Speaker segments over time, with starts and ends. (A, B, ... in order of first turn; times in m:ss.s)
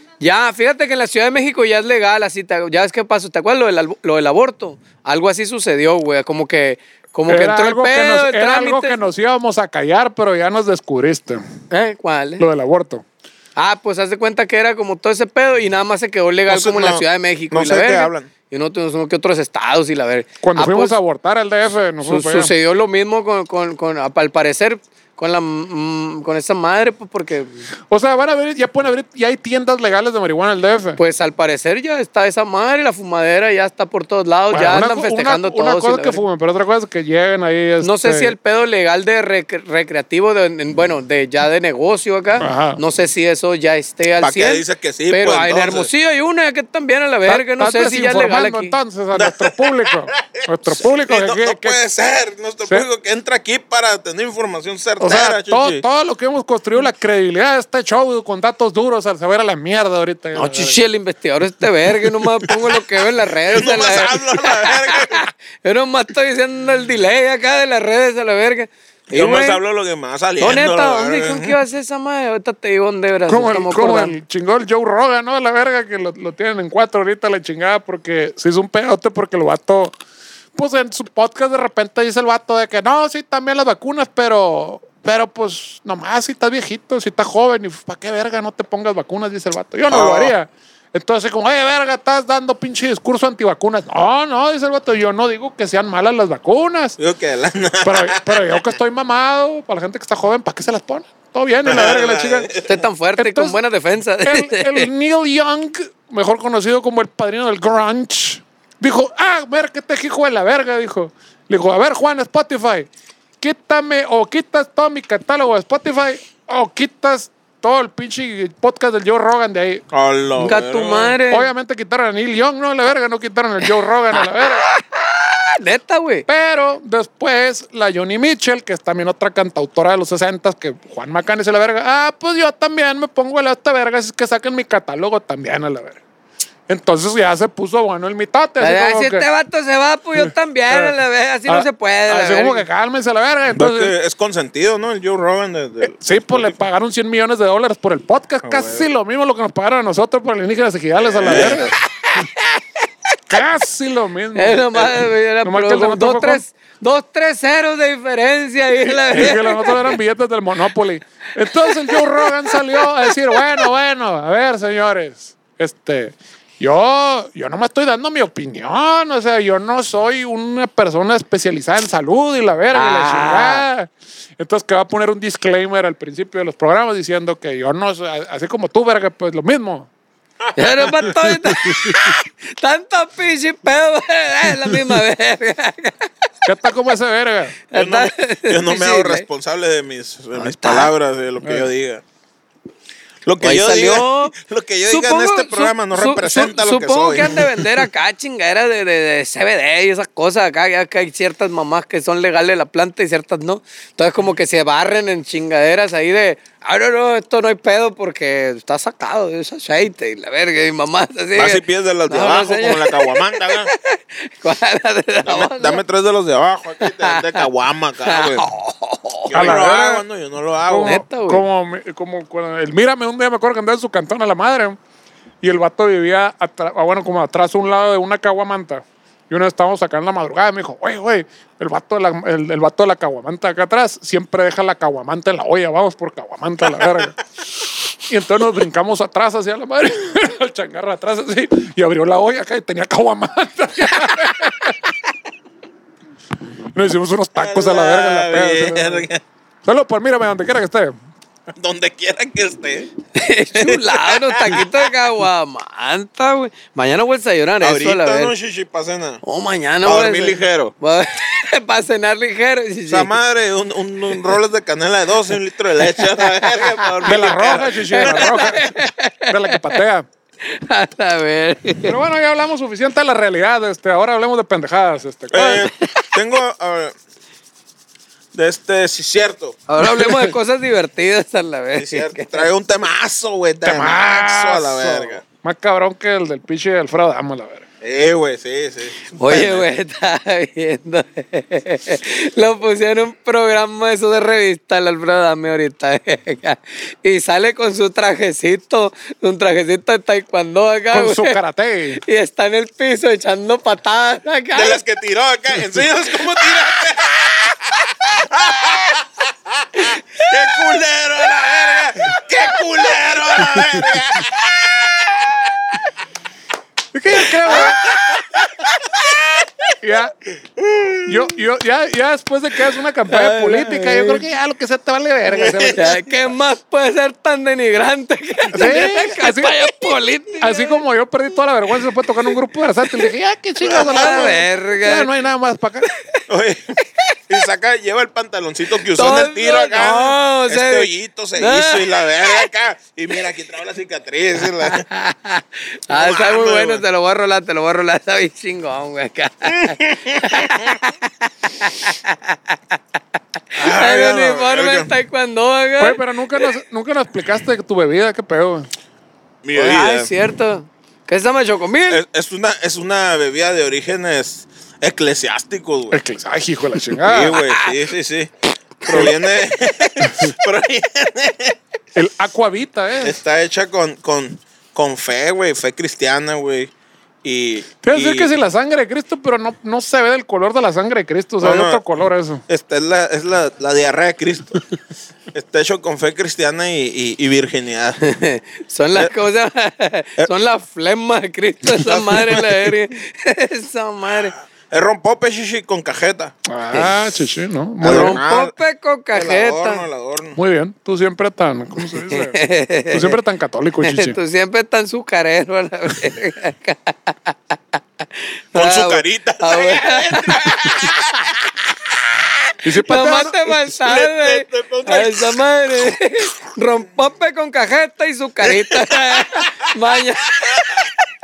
0:00.2-0:09.0 A
0:07.3-0:11.4 B
0:11.7-0:12.4 A
0:12.4-0:13.0 B
0:13.6-0:21.0 A
0:16.5-0:18.3 C
0:20.4-0:22.5 B
0:22.0-0:27.6 A
0:27.9-0:31.0 B
0:31.0-0:36.2 A
0:34.5-0:38.4 B
0:37.8-0:48.8 A
0:42.4-0:42.8 B
0:44.2-0:45.9 C
0:47.3-0:51.8 B
0:49.1-0:50.0 C
0:50.7-0:55.8 C
0:55.0-1:00.8 B
1:00.4-1:09.6 A
1:03.5-1:05.2 C
1:09.1-1:11.6 C
1:10.4-1:14.1 A
1:13.3-1:19.9 B
1:20.6-1:37.0 B
1:29.9-1:30.4 C
1:37.0-1:38.6 C
1:37.8-1:42.5 B
1:41.6-1:42.8 C
1:42.6-1:44.9 A
1:43.2-1:43.6 B
1:44.2-1:52.9 B
1:53.4-1:59.8 B
1:59.9-2:01.2 C
2:00.4-2:01.5 A
2:01.3-2:04.6 B
2:04.1-2:06.3 A
2:06.3-2:16.0 B
2:16.7-2:19.2 B
2:18.6-2:22.6 A
2:20.2-2:20.9 B
2:21.5-2:23.9 B
2:23.5-2:26.6 C
2:25.8-2:31.8 B
2:28.4-2:28.9 C
2:31.0-2:31.7 C
2:31.3-2:31.6 A
2:32.1-2:32.6 A
2:33.3-2:34.9 B
2:34.4-2:40.0 A
2:35.4-2:36.4 B
2:39.0-2:59.9 B
2:41.5-2:43.7 A
2:52.7-2:53.7 A
3:00.6-3:06.1 A
3:00.6-3:01.2 C
3:06.4-3:07.6 B
3:07.7-3:09.3 A
3:07.7-3:12.0 C
3:10.4-3:10.9 A
3:13.2-3:17.6 C
3:13.4-3:14.4 A
3:14.9-3:35.8 A
3:31.4-3:33.7 C
3:35.2-3:38.5 C
3:36.8-3:37.5 A
3:38.0-3:39.8 A
3:39.3-3:41.0 C
3:39.4-3:40.0 B
3:40.7-3:44.8 B
3:40.8-3:41.4 A
3:45.4-3:57.2 B
3:58.1-4:04.8 B
4:06.7-4:09.1 B
4:07.3-4:09.2 C
4:09.6-4:11.0 B
4:11.5-4:12.9 C
4:13.2-4:18.3 A
4:13.6-4:14.8 C
4:17.6-4:19.2 C
4:19.2-4:23.1 A
4:19.8-4:20.7 C
4:22.9-4:28.5 C
4:25.9-4:29.8 A
4:27.0-4:30.1 B
4:30.4-4:32.0 A
4:31.9-4:35.7 B
4:35.3-4:37.0 C
4:35.6-4:36.2 A
4:38.3-4:39.6 C
4:39.7-4:42.5 A
4:41.8-4:45.2 C
4:43.6-4:47.7 B
4:47.8-4:49.7 C
4:49.1-5:01.4 A
5:00.9-5:02.0 B
5:02.0-5:04.8 A
5:04.5-5:15.8 C
5:09.8-5:10.6 A
5:16.9-5:17.8 B
5:17.2-5:19.5 C
5:17.4-5:17.8 A
5:19.8-5:20.1 B
5:20.6-5:21.4 C
5:21.1-5:26.0 B
5:23.1-5:24.2 A
5:25.3-5:26.0 C
5:25.7-5:30.8 A
5:28.5-5:29.5 B
5:30.4-5:35.9 B
5:33.6-5:34.4 C
5:33.8-5:35.1 A
5:36.3-5:36.8 C
5:37.3-5:44.8 C
5:38.9-5:42.5 A
5:44.6-5:52.8 A
5:45.9-5:46.8 C
5:49.4-5:50.7 C
5:53.6-5:54.9 C
5:53.6-5:56.5 A
5:55.8-5:58.7 B
5:59.4-6:00.1 C
5:59.5-6:02.0 A
6:01.9-6:06.0 C
6:05.9-6:07.4 B
6:07.0-6:08.3 C
6:08.8-6:11.6 C
6:08.9-6:09.1 B
6:12.0-6:13.2 B
6:13.0-6:16.7 C
6:17.2-6:18.3 C
6:17.8-6:22.4 B
6:21.4-6:21.8 C
6:22.5-6:24.6 C
6:25.3-6:28.0 C
6:28.0-6:34.3 A
6:31.9-6:32.6 C
6:34.7-6:36.3 C
6:36.5-6:38.2 B
6:37.8-6:38.6 C
6:37.8-6:39.8 A
6:39.1-6:40.4 C
6:40.4-6:42.4 B
6:42.1-6:43.2 A
6:42.9-6:44.2 B
6:43.8-6:47.6 A
6:48.5-6:50.4 A
6:48.6-6:52.3 C
6:52.6-6:53.4 B
6:52.8-7:00.8 A
6:53.8-6:55.4 C
6:58.4-6:59.5 C
7:00.4-7:00.9 C